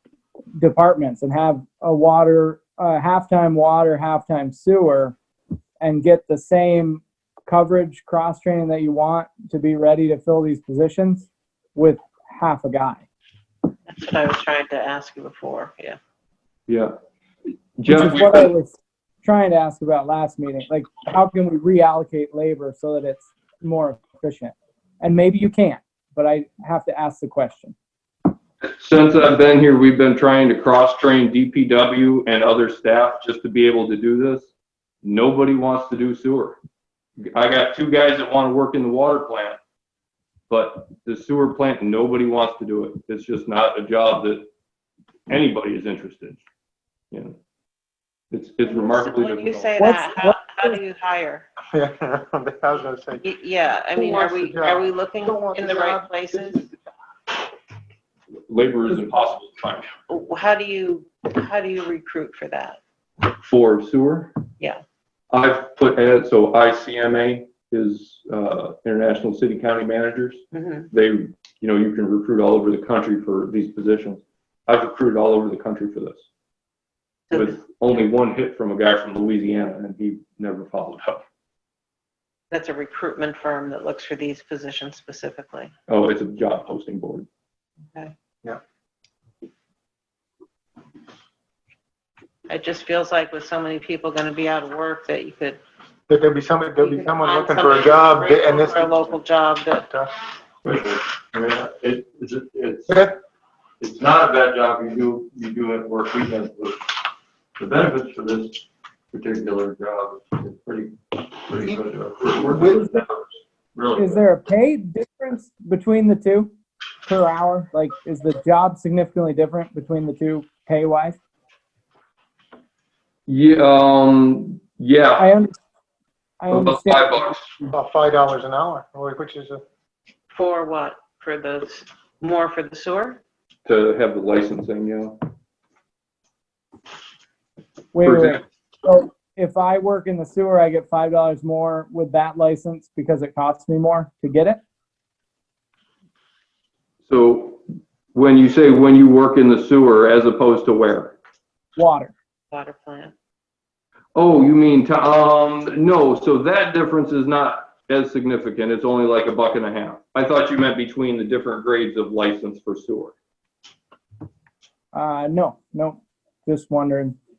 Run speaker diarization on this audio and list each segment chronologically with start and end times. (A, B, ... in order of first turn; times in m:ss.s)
0:00.6-0:05.2 A
0:05.8-0:13.0 A
0:13.9-0:16.0 B
0:16.7-0:16.9 C
0:17.8-0:18.5 C
0:17.8-0:27.7 A
0:28.6-0:34.5 C
0:35.0-0:36.6 C
0:37.3-0:39.6 C
0:40.5-0:44.5 C
0:45.3-0:46.4 C
0:47.1-0:47.4 C
0:48.3-0:49.7 C
0:48.7-0:51.4 B
0:49.8-0:50.8 A
0:51.7-0:53.2 D
0:53.2-0:56.7 B
0:54.0-0:54.8 D
0:58.5-0:59.9 C
1:00.1-1:02.8 B
1:03.2-1:04.3 C
1:05.3-1:16.2 C
1:10.5-1:10.9 B
1:17.3-1:17.6 B
1:17.3-1:21.2 C
1:22.5-1:25.7 B
1:25.9-1:27.3 C
1:32.5-1:35.6 B
1:36.1-1:38.9 D
1:36.8-1:39.9 B
1:39.8-1:40.1 D
1:40.6-1:43.1 E
1:42.9-1:43.1 D
1:43.8-1:46.8 E
1:47.6-1:54.2 E
1:52.5-1:52.8 D
1:54.0-1:56.5 A
1:57.0-2:01.2 A
2:03.3-2:05.3 C
2:05.2-2:05.5 A
2:06.4-2:07.7 A
2:06.5-2:07.6 C
2:07.7-2:09.6 D
2:10.3-2:13.2 B
2:13.6-2:15.2 C
2:17.9-2:24.6 A
2:18.0-2:18.4 C
2:27.0-2:27.6 C
2:28.1-2:31.2 C
2:31.8-2:32.1 A
2:32.5-2:33.1 B
2:34.1-2:43.1 C
2:44.9-2:47.2 A